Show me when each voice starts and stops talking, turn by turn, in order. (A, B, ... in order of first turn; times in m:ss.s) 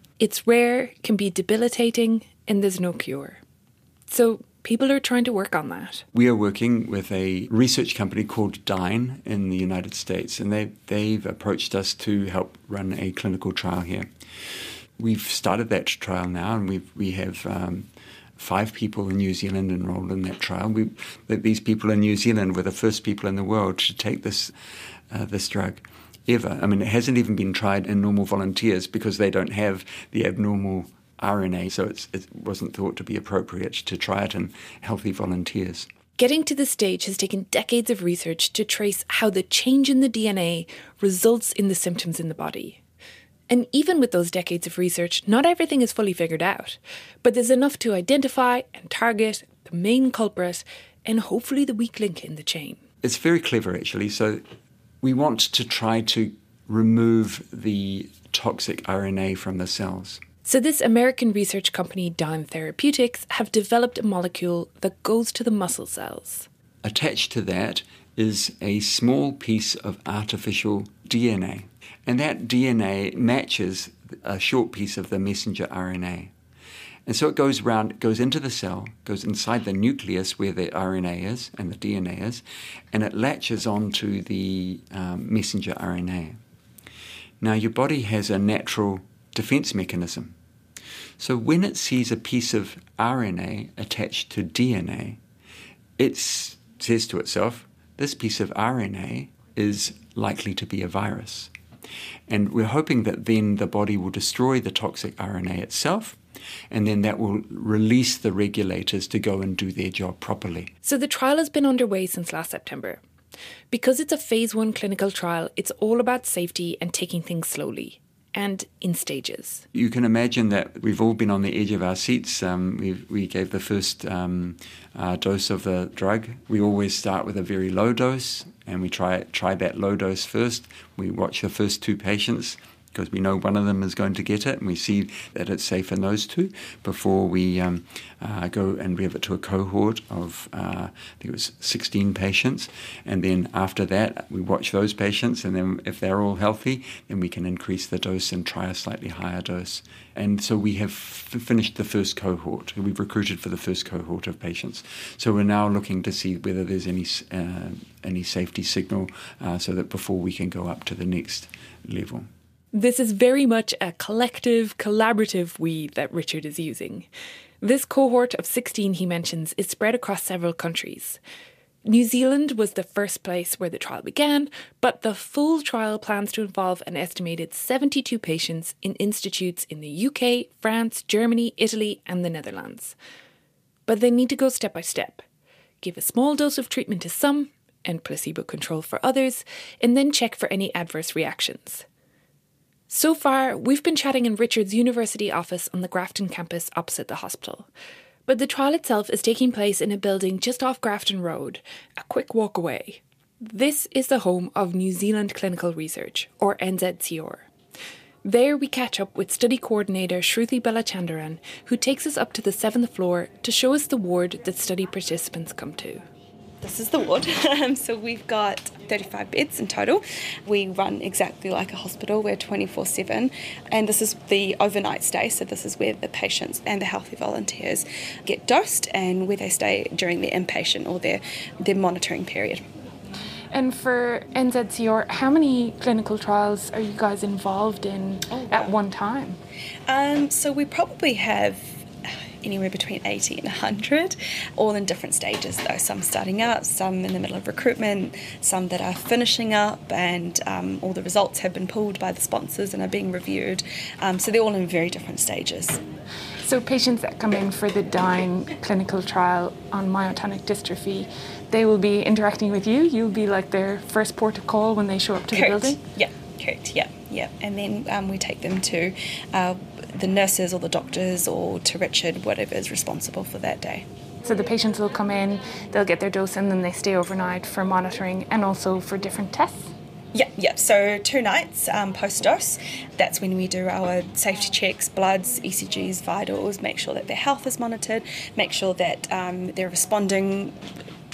0:00.2-0:03.4 A
0:04.1-0:06.0 A
0:06.1-0:14.1 B
0:15.0-0:24.5 B
0:25.1-0:35.9 B
0:36.2-0:42.8 A
0:43.5-0:52.8 A
0:53.0-0:54.4 B
0:55.0-1:00.2 B
1:00.4-1:06.5 A
1:06.8-1:16.3 B
1:17.1-1:26.4 B
1:27.4-1:30.4 B
1:31.2-1:35.2 B
1:36.0-1:41.5 B
1:42.3-1:46.2 B
1:46.7-1:50.7 B
1:50.8-1:53.0 A
1:53.7-1:59.6 A
1:59.7-2:42.3 B
2:42.7-2:47.1 A
2:47.6-2:51.2 A
2:51.8-3:03.0 A
3:03.9-3:05.2 A
3:05.8-3:11.8 A
3:12.9-3:17.7 A
3:18.3-3:27.5 A
3:28.2-3:36.0 A
3:36.6-3:52.6 C
3:53.5-3:59.4 A
3:58.3-3:58.7 C
3:59.9-4:01.8 C
4:02.4-4:15.8 C
4:16.4-4:25.8 A
4:25.3-4:33.8 C
4:34.2-4:39.7 A
4:40.1-4:50.6 C